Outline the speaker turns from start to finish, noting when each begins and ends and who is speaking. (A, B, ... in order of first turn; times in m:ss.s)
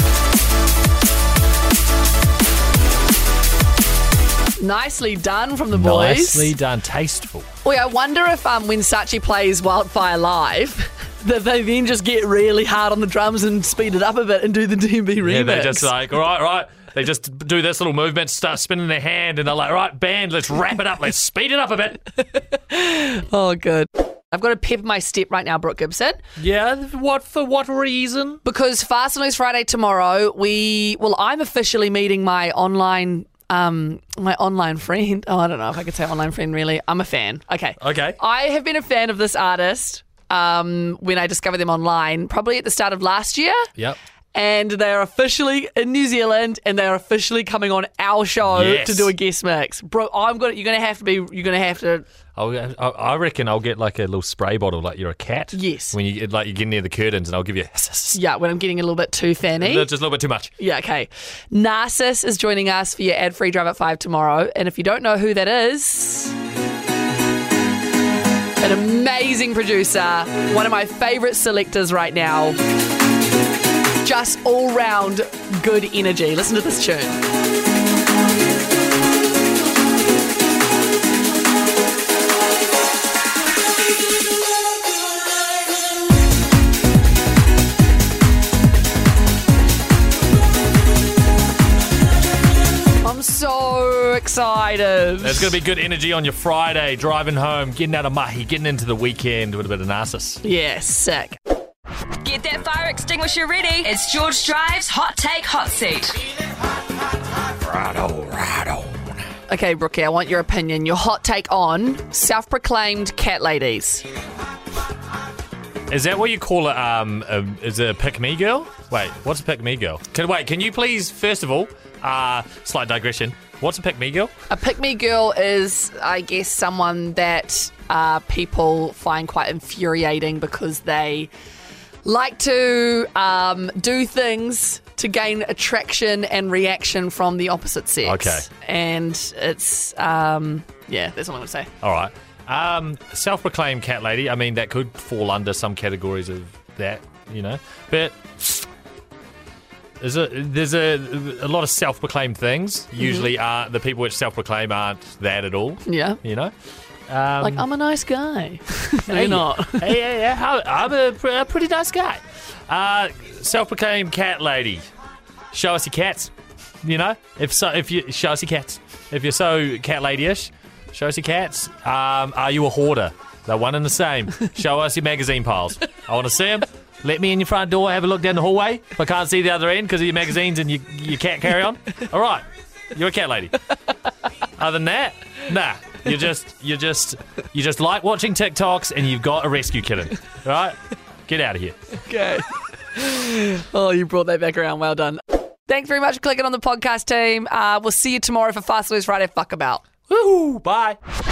0:04.6-0:06.5 A
0:05.7-0:07.5 B
0:07.6-0:15.9 A
0:15.2-0:22.0 B
0:22.5-0:26.2 A
0:26.4-0:28.4 B
0:28.4-0:43.7 A
0:37.8-0:38.2 B
0:44.4-0:52.0 A
0:48.4-0:49.1 B
0:52.4-0:58.2 B
0:55.5-0:56.0 A
0:58.1-0:59.9 A
0:59.6-1:00.5 B
1:00.6-1:06.4 A
1:08.6-1:12.6 A
1:14.0-1:17.2 A
1:33.0-1:35.5 A
1:35.2-1:40.4 B
1:40.4-1:41.4 A
1:42.2-1:46.2 C
1:47.6-1:49.1 B
1:49.5-1:54.0 A
1:55.9-2:04.3 B
2:04.5-2:11.3 A
2:12.0-2:21.7 A
2:18.0-2:18.5 B
2:21.8-2:28.7 B
2:30.0-2:36.5 B
2:33.0-2:33.3 A
2:35.8-2:36.2 A
2:37.1-2:37.7 B
2:37.4-2:40.0 A
2:39.1-2:44.9 B
2:45.5-3:03.6 B
3:04.6-3:11.8 B
3:12.0-3:19.8 A
3:20.1-3:21.0 B